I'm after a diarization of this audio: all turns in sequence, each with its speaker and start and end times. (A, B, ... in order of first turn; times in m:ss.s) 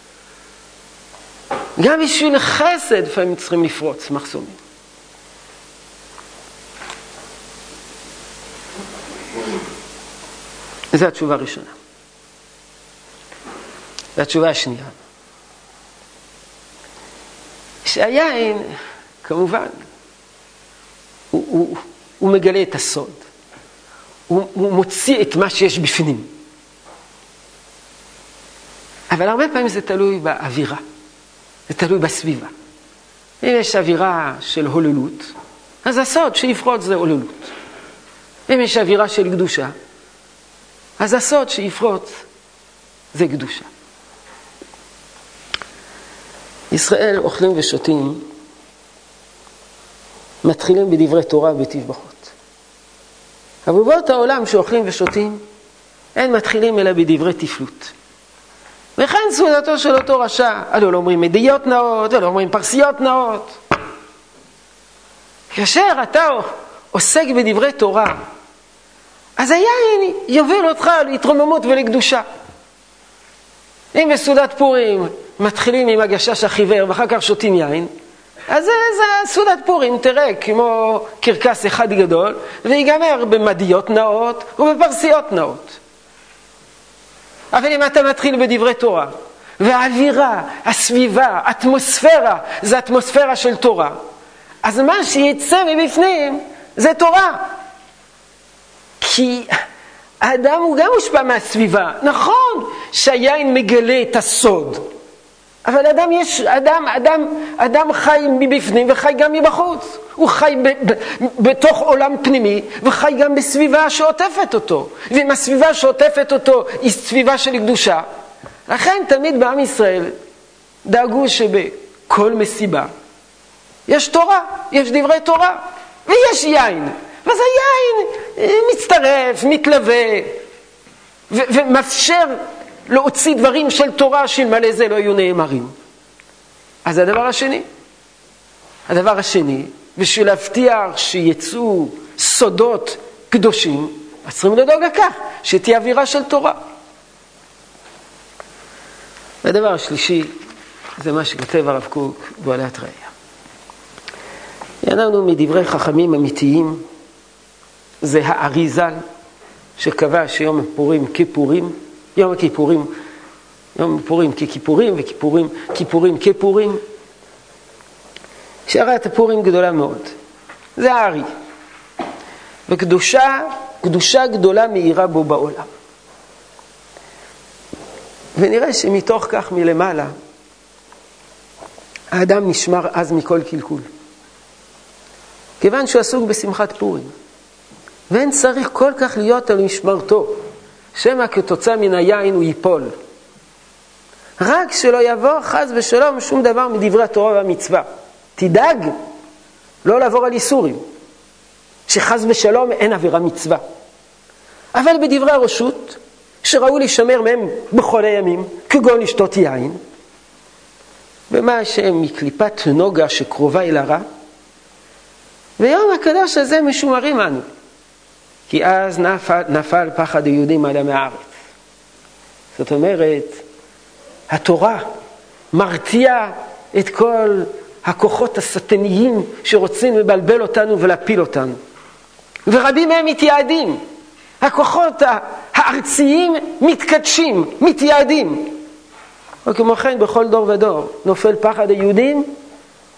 0:01.8-0:04.6 A
0:10.9-0:11.7 A
0:14.2-0:15.0 A
0:17.8-0:19.8 A
0:21.3-0:23.2 A
0:24.3-0:26.3 A
0:29.1-0:30.8 A
0:31.7-0:32.5 A
0:33.4-0:37.5 A
0:38.5-0:39.7 A
0:41.0-0:42.2 A
0:43.1-0:43.7 A
0:46.7-0:48.2 A
0:50.4-0:52.3 A
0:53.7-0:55.4 A
0:56.1-0:57.9 A
0:59.0-1:03.6 A
1:05.5-1:08.2 A
1:09.4-1:12.2 A
1:13.9-1:17.9 A
1:18.5-1:25.8 A
1:27.5-1:34.0 A
1:34.6-1:37.5 A
1:39.0-1:39.5 A
1:40.2-1:44.9 A
1:45.6-1:58.0 A
1:58.7-2:00.1 A
2:00.8-2:02.9 A
2:03.9-2:10.4 A
2:11.3-2:15.7 A
2:16.8-2:17.7 A
2:18.9-2:26.6 A
2:29.4-2:30.3 A
2:31.0-2:33.1 A
2:34.8-2:36.8 A
2:38.0-2:39.0 A
2:39.8-2:42.9 A
2:43.8-2:46.8 A
2:48.7-2:50.1 A
2:50.8-2:51.3 A
2:52.7-2:55.7 A
2:58.4-3:00.1 A
3:02.1-3:03.9 A
3:05.6-3:07.1 A
3:08.1-3:10.4 A
3:11.0-3:12.9 A
3:14.4-3:17.9 A
3:18.4-3:19.0 A
3:19.8-3:20.8 A
3:21.9-3:23.6 A
3:24.7-3:29.8 A
3:31.3-3:34.0 A
3:35.6-3:37.5 A
3:38.5-3:41.3 A
3:42.6-3:43.4 A
3:44.3-3:44.9 A
3:45.5-3:51.6 A
3:52.5-3:53.8 A
3:54.4-3:58.6 A
3:59.5-4:02.3 A